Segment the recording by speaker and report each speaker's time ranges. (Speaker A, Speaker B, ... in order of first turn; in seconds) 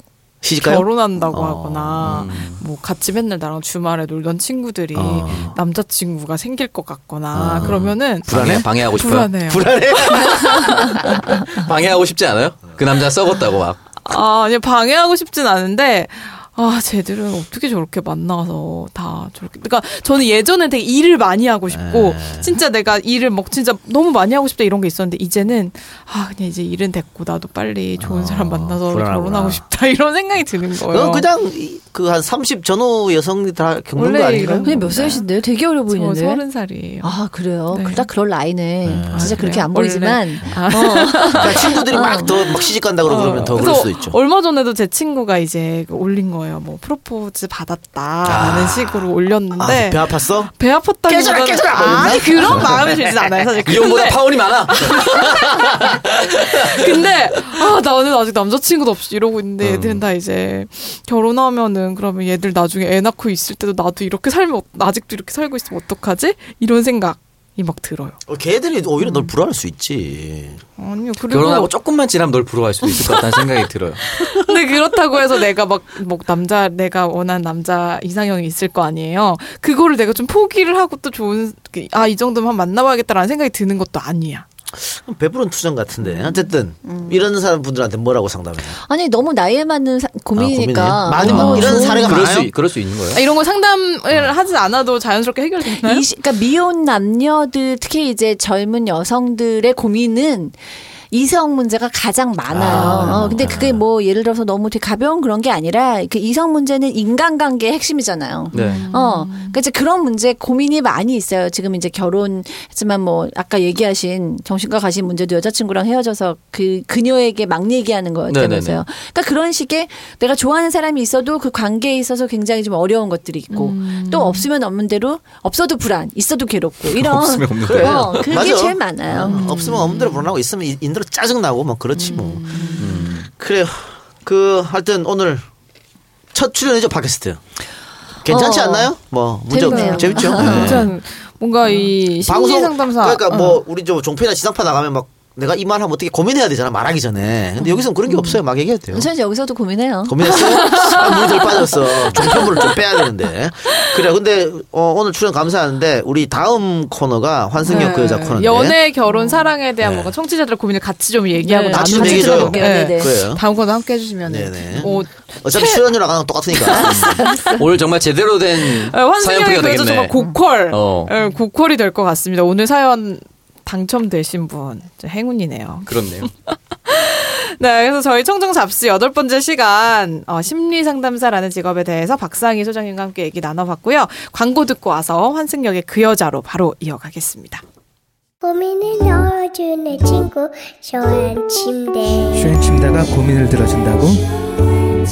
Speaker A: 0.4-2.3, 4.9-5.5, 7.3-8.8, 9.3-10.9, 21.7-22.6, 28.0-29.6, 30.9-34.8, 38.8-39.5, 41.3-44.2, 48.2-50.5, 51.1-53.5, 68.3-70.6, 84.7-88.8, 90.4-92.5, 102.5-103.8, 127.6-135.4, 136.3-137.4, 138.2-140.9, 142.2-149.1, 150.1-158.8, 159.8-160.2, 161.7-163.4, 164.2-167.2
Speaker B: 0.6-11.1, 14.0-31.3, 34.0-35.3, 35.9-37.1, 37.7-38.1, 39.1-68.2, 69.0-69.3, 70.8-71.7, 72.8-73.5, 74.1-84.5, 91.3-91.9, 93.1-96.0, 108.5-109.6, 123.5-124.5, 129.2-130.3, 131.9-133.2, 139.6-143.6, 150.5-152.8, 157.6-165.9, 166.5-167.6, 168.6-187.6
Speaker C: 2.0-2.6, 7.5-9.3, 11.0-13.8, 53.6-57.1, 59.6-60.0, 71.3-74.4, 91.2-93.2, 102.5-103.7, 108.5-108.9, 118.3-118.8, 126.9-128.4, 132.8-133.3, 166.9-170.2, 170.7-171.1, 175.9-176.3
Speaker D: 34.6-36.4, 37.0-42.4, 86.9-87.1, 88.8-92.1, 95.6-100.5, 101.1-129.4, 138.3-138.9, 139.5-140.9, 148.9-150.8, 159.1-159.5, 161.4-163.1, 166.7-167.6
Speaker E: 188.4-192.5
Speaker F: 192.3-194.3